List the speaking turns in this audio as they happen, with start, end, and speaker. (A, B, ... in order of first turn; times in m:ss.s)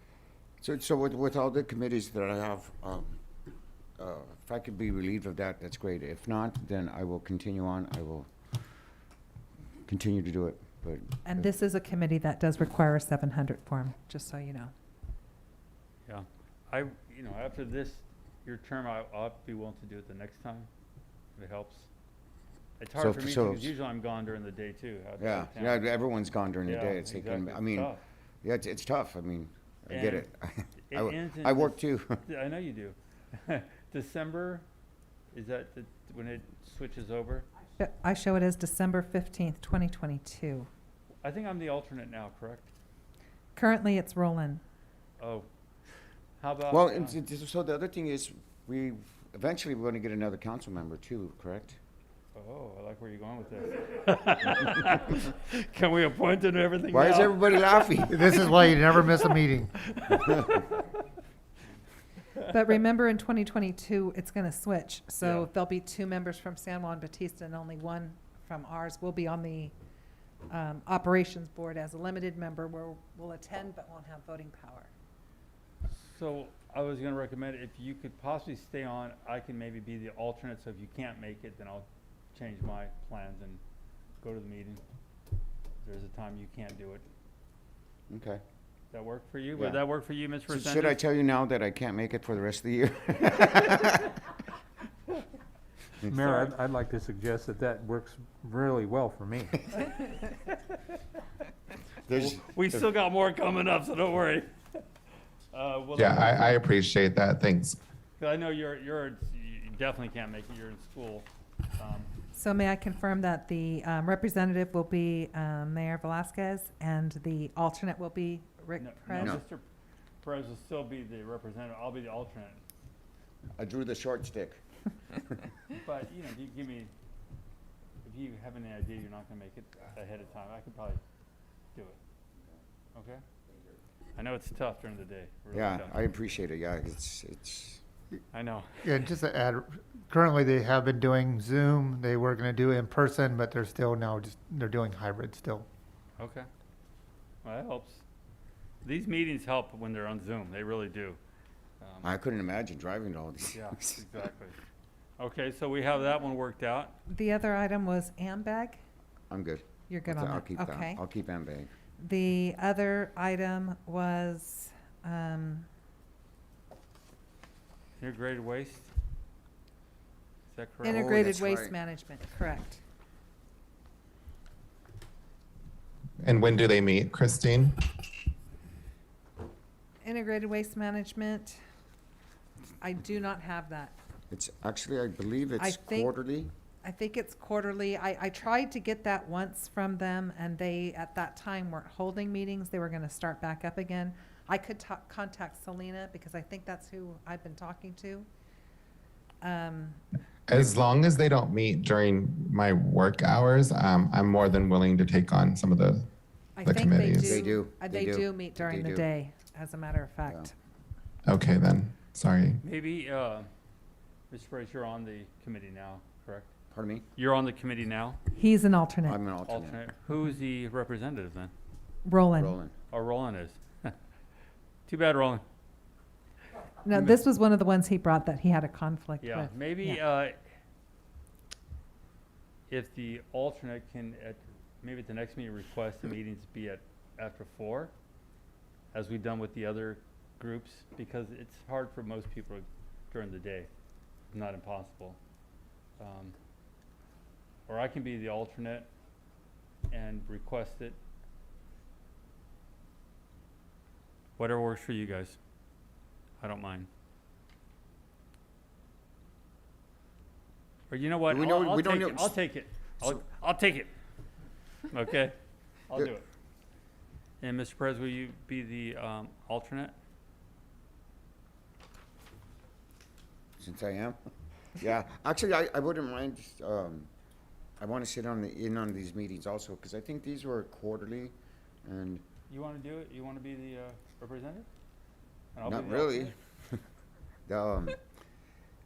0:00.6-0:03.2 A
0:04.0-0:08.3 A
0:09.9-0:11.5 A
0:11.3-0:14.7 B
0:16.1-0:20.7 C
0:21.4-0:21.9 C
0:22.8-0:25.8 C
0:23.0-0:23.7 A
0:25.2-0:32.2 A
0:26.7-0:28.0 C
0:29.9-0:30.3 C
0:30.9-0:34.6 C
0:35.3-0:37.5 C
0:37.8-0:40.7 B
0:41.2-0:42.7 C
0:43.6-0:44.6 B
0:45.2-0:45.5 C
0:46.4-0:47.2 C
0:46.7-0:51.8 A
0:52.4-0:59.2 C
0:56.9-0:58.4 A
0:58.1-0:59.8 D
0:59.8-1:01.0 C
1:02.4-1:09.7 B
1:05.2-1:05.5 C
1:10.5-1:14.9 B
1:15.9-1:23.6 C
1:24.2-1:24.8 C
1:25.8-1:27.0 C
1:28.1-1:28.4 A
1:28.9-1:31.0 C
1:29.6-1:29.8 A
1:30.5-1:34.2 A
1:36.1-1:39.6 E
1:36.1-1:36.5 C
1:39.9-1:40.2 C
1:42.1-1:42.4 A
1:42.1-1:44.5 C
1:45.5-1:46.6 C
1:46.0-1:47.8 F
1:48.2-1:52.1 C
1:52.4-1:59.4 B
1:58.8-1:59.6 C
2:00.2-2:02.6 C
2:03.6-2:04.6 A
2:05.7-2:06.9 C
2:08.0-2:11.0 C
2:13.0-2:13.2 C
2:14.2-2:15.9 C
2:15.5-2:17.8 A
2:18.3-2:19.1 C
2:18.8-2:25.7 D
2:26.2-2:26.5 C
2:27.4-2:28.0 C
2:28.8-2:31.2 C
2:31.8-2:32.1 C
2:32.0-2:34.0 A
2:33.5-2:34.6 C
2:35.2-2:37.0 C
2:37.1-2:38.8 B
2:39.3-2:41.7 A
2:39.9-2:41.0 B
2:42.0-2:45.7 B
2:48.0-2:48.9 C
2:50.5-2:51.1 C
2:50.8-2:52.8 B
2:50.9-2:51.7 A
2:56.2-2:57.8 F
3:00.0-3:01.6 B
3:02.8-3:04.0 B
3:04.3-3:06.5 A
3:05.6-3:06.1 B
3:06.8-3:18.3 B
3:19.4-3:20.0 B
3:20.5-3:26.0 F
3:26.6-3:30.5 B
3:26.6-3:27.4 F
3:27.2-3:29.1 A
3:31.3-3:32.6 F
3:32.6-3:33.5 C
3:34.3-3:36.5 C
3:36.7-3:37.0 A
3:37.2-3:38.2 C
3:38.3-3:39.2 B
3:39.0-3:39.8 A
3:39.5-3:41.5 C
3:42.0-3:42.6 B
3:42.4-3:42.7 A
3:42.9-3:43.9 C
3:44.9-3:45.4 C
3:46.8-3:50.0 B
3:49.2-3:50.4 C
3:52.7-3:57.9 C
3:58.9-4:03.7 C
4:04.3-4:05.2 C
4:06.0-4:06.3 C
4:07.7-4:08.9 C
4:09.9-4:11.0 C
4:14.4-4:15.4 C
4:16.4-4:16.9 C
4:20.9-4:23.9 C
4:21.3-4:22.4 A
4:24.9-4:25.4 C
4:25.9-4:26.2 C
4:27.4-4:29.9 C
4:33.6-4:34.2 A
4:34.8-4:37.1 A
4:37.8-4:41.3 A
4:41.8-4:42.2 A
4:42.5-4:44.7 C
4:45.6-4:46.3 C
4:45.6-4:46.8 A
4:47.5-4:48.0 A